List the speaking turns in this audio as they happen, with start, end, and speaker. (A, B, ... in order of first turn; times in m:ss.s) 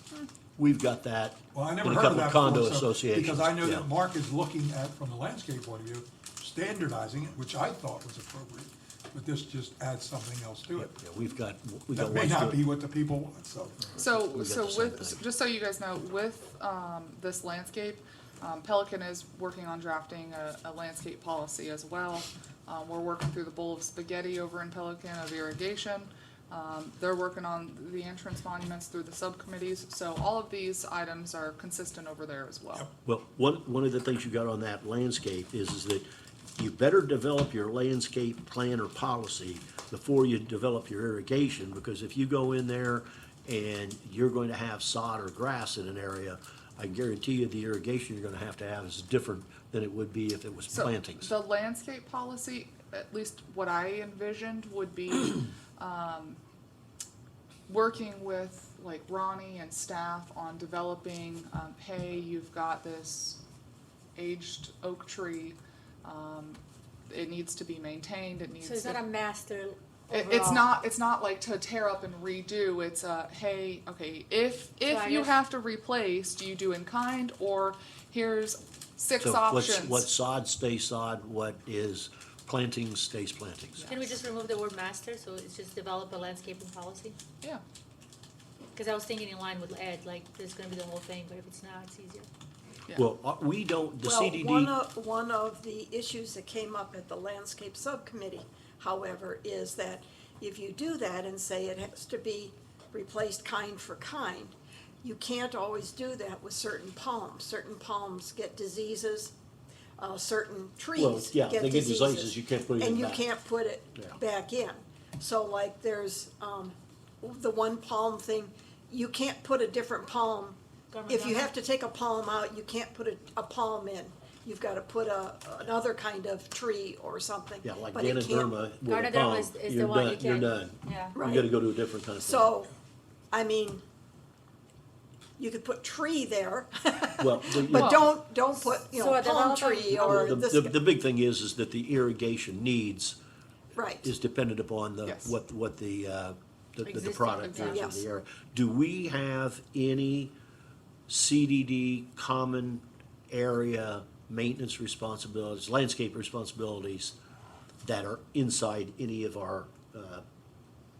0:00.6-0:03.9 A
0:01.5-0:10.9 B
0:10.8-0:12.6 A
0:11.9-0:13.9 B
0:13.9-0:15.2 A
0:14.0-0:32.9 C
0:33.0-0:36.0 A
0:36.6-0:51.3 A
0:50.7-0:56.4 C
0:57.7-1:03.4 C
1:04.2-1:09.0 C
1:08.6-1:10.7 D
1:10.1-1:20.1 C
1:14.8-1:15.4 D
1:19.2-1:23.8 A
1:23.8-1:24.1 C
1:23.8-1:27.2 D
1:28.7-1:32.3 D
1:32.9-1:34.7 A
1:34.0-1:49.3 E
1:50.0-2:08.6 E
1:50.9-1:53.2 A
2:00.9-2:01.5 D
2:07.6-2:12.5 A
2:08.8-2:11.2 D
2:11.1-2:11.5 E
2:12.2-2:12.7 E
2:13.3-2:13.8 E
2:15.4-2:20.8 E
2:17.2-2:18.1 A
2:17.7-2:18.1 C
2:18.9-2:20.4 D
2:19.9-2:23.2 A
2:23.7-2:24.1 E
2:24.0-2:30.3 A
2:25.0-2:25.3 C
2:26.8-2:28.0 D
2:27.6-2:28.0 E
2:31.1-2:37.1 A
2:37.8-2:40.2 A